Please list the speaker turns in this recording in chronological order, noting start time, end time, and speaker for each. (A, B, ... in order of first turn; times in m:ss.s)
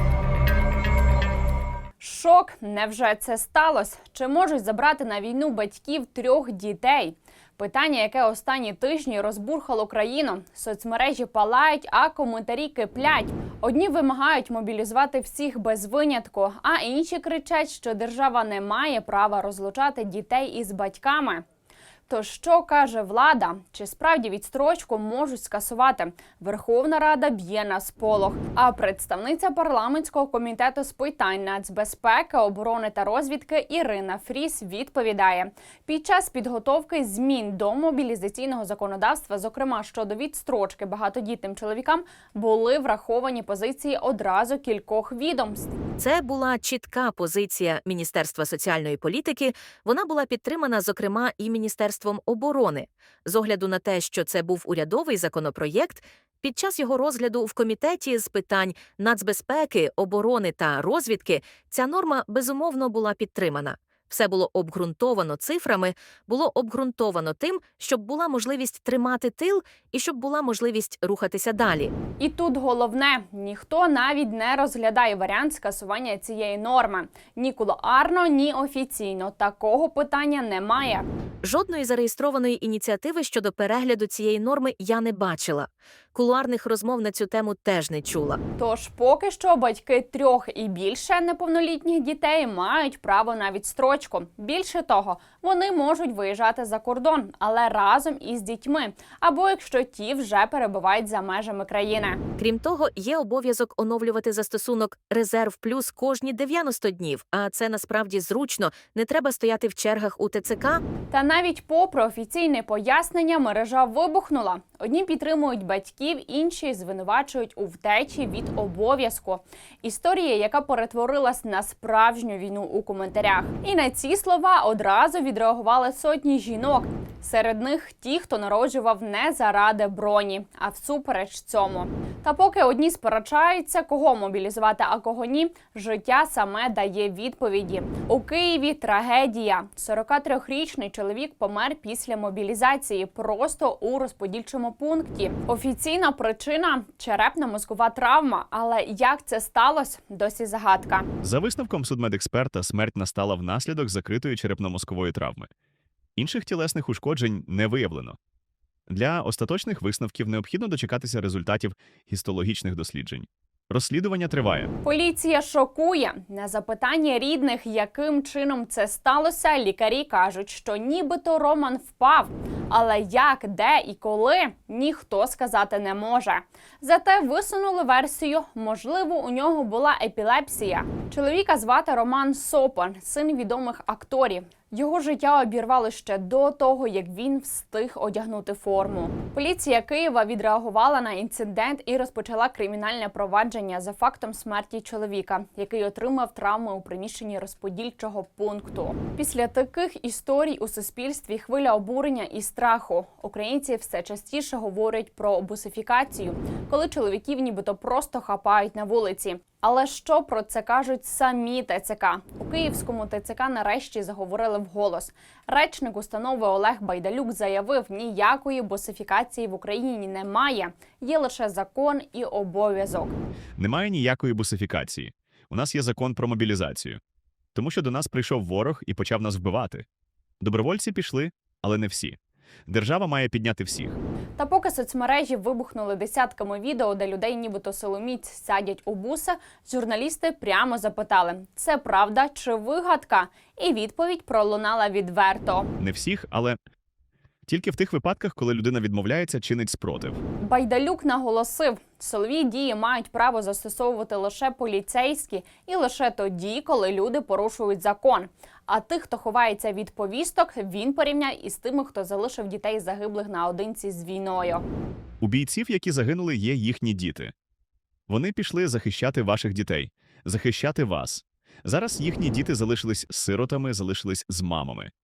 0:02.0-0:21.4 A
0:22.1-0:45.7 A
0:46.0-1:11.9 B
1:12.2-1:21.0 A
1:21.4-1:28.4 B
1:28.6-1:42.2 A
1:42.4-1:50.8 B
1:51.1-2:31.1 A
2:31.2-2:35.5 C
2:36.2-2:38.2 C
2:38.9-2:44.7 C
2:44.8-3:43.2 A
3:43.6-3:47.0 C
3:47.5-3:49.8 C
3:50.4-3:54.0 C
3:54.4-4:05.7 A
4:05.8-4:06.6 C
4:07.5-4:10.2 C
4:10.4-4:24.6 A
4:25.2-4:27.3 C
4:28.1-4:34.9 C